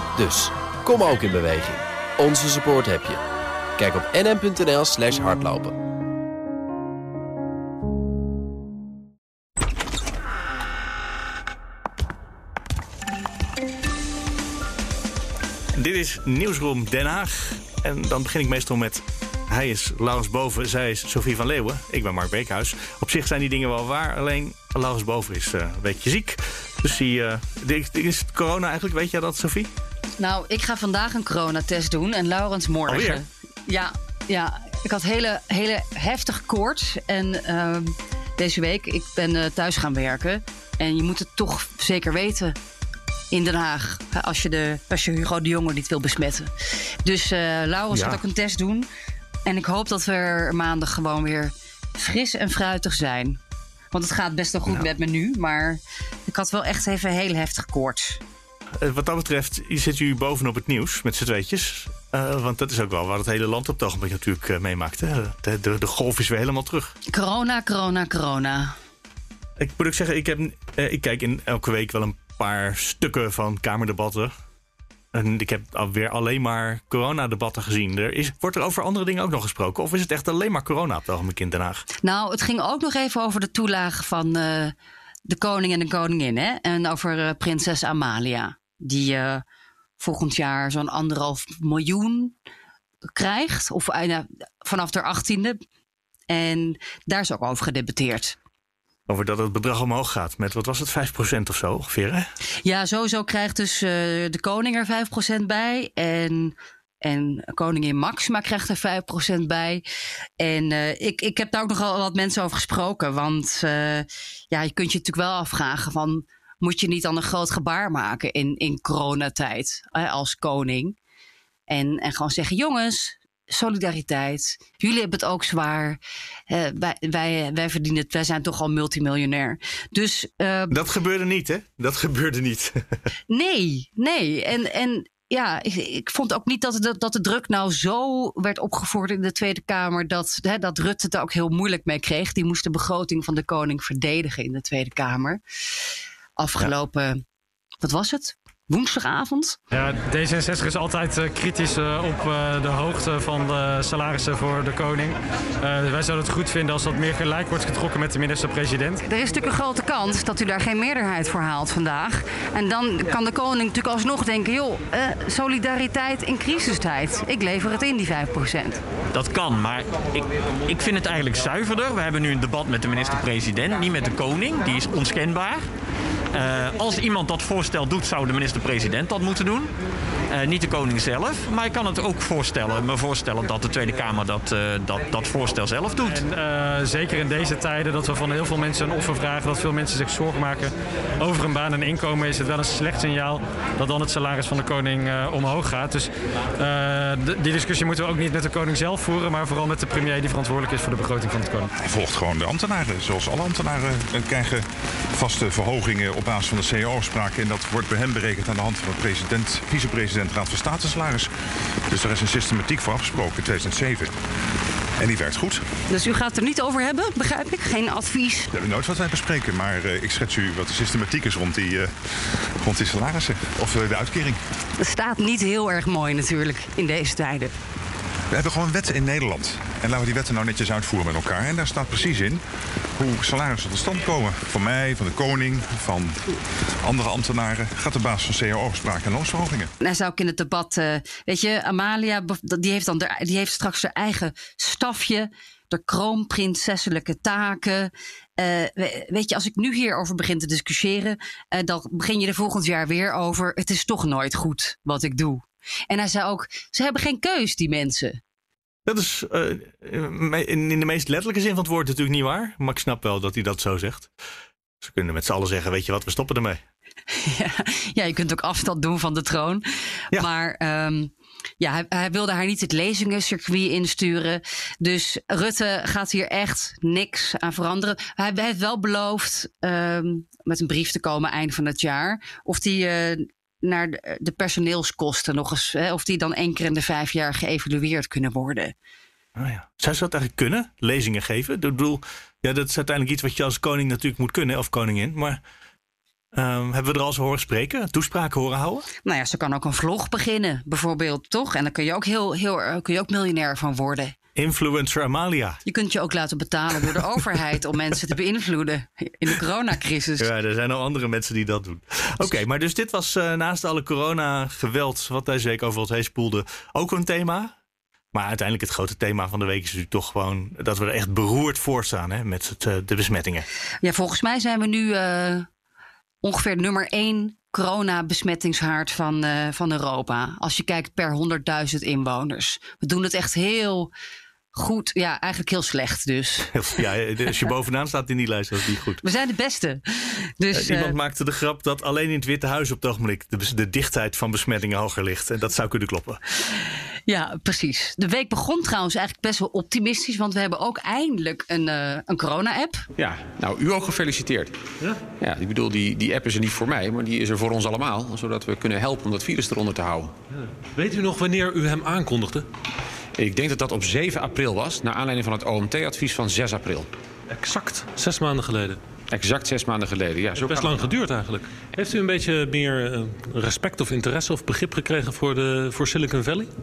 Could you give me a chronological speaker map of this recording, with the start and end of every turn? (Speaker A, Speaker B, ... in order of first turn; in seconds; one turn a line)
Speaker A: 0.2-3.2
Speaker A: 3.8-5.8
Speaker B: 15.8-29.7
Speaker C: 30.2-42.5
Speaker B: 32.9-33.2
Speaker C: 43.3-46.5
Speaker C: 47.0-48.9
Speaker B: 47.9-48.2
Speaker C: 49.5-53.4
Speaker C: 53.9-58.2
Speaker B: 58.8-66.9
Speaker C: 67.1-68.8
Speaker B: 69.6-74.3
Speaker B: 75.1-81.8
Speaker C: 82.0-84.8
Speaker C: 85.3-89.4
Speaker C: 90.0-92.3
Speaker C: 93.2-95.6
Speaker C: 96.3-98.4
Speaker B: 99.1-102.3
Speaker C: 102.7-109.8
Speaker C: 110.4-121.0
Speaker C: 121.7-126.0
Speaker C: 126.5-130.8
Speaker B: 130.7-133.0
Speaker C: 133.3-145.4
Speaker C: 146.4-147.2
Speaker C: 147.8-149.6
Speaker D: 149.7-159.0
Speaker C: 159.1-168.8
Speaker E: 169.1-175.7
Speaker E: 176.3-179.7
Speaker E: 180.3-186.2
Speaker D: 186.1-201.7
Speaker F: 201.8-211.3
Speaker F: 211.9-214.1
Speaker F: 215.0-215.6
Speaker C: 215.9-218.5
Speaker F: 218.5-224.4
Speaker C: 224.8-227.5
Speaker F: 228.3-232.4
Speaker F: 233.0-236.2
Speaker F: 236.8-239.7
Speaker C: 239.8-258.2
Speaker B: 258.9-264.1
Speaker B: 264.8-266.6
Speaker C: 267.1-288.7
Speaker B: 289.4-295.4
Speaker B: 296.3-298.9
Speaker C: 299.1-304.1
Speaker B: 304.4-305.6
Speaker C: 305.7-310.3
Speaker B: 310.2-317.5
Speaker B: 318.1-323.5
Speaker C: 323.8-325.5
Speaker C: 326.2-333.9
Speaker C: 334.5-336.5
Speaker B: 336.5-339.0
Speaker C: 339.0-340.9
Speaker B: 340.5-346.2
Speaker C: 347.1-352.9
Speaker G: 353.0-354.6
Speaker G: 355.2-360.1
Speaker H: 360.7-362.5
Speaker G: 363.2-366.9
Speaker H: 367.3-368.8
Speaker G: 369.1-370.9
Speaker H: 370.4-376.5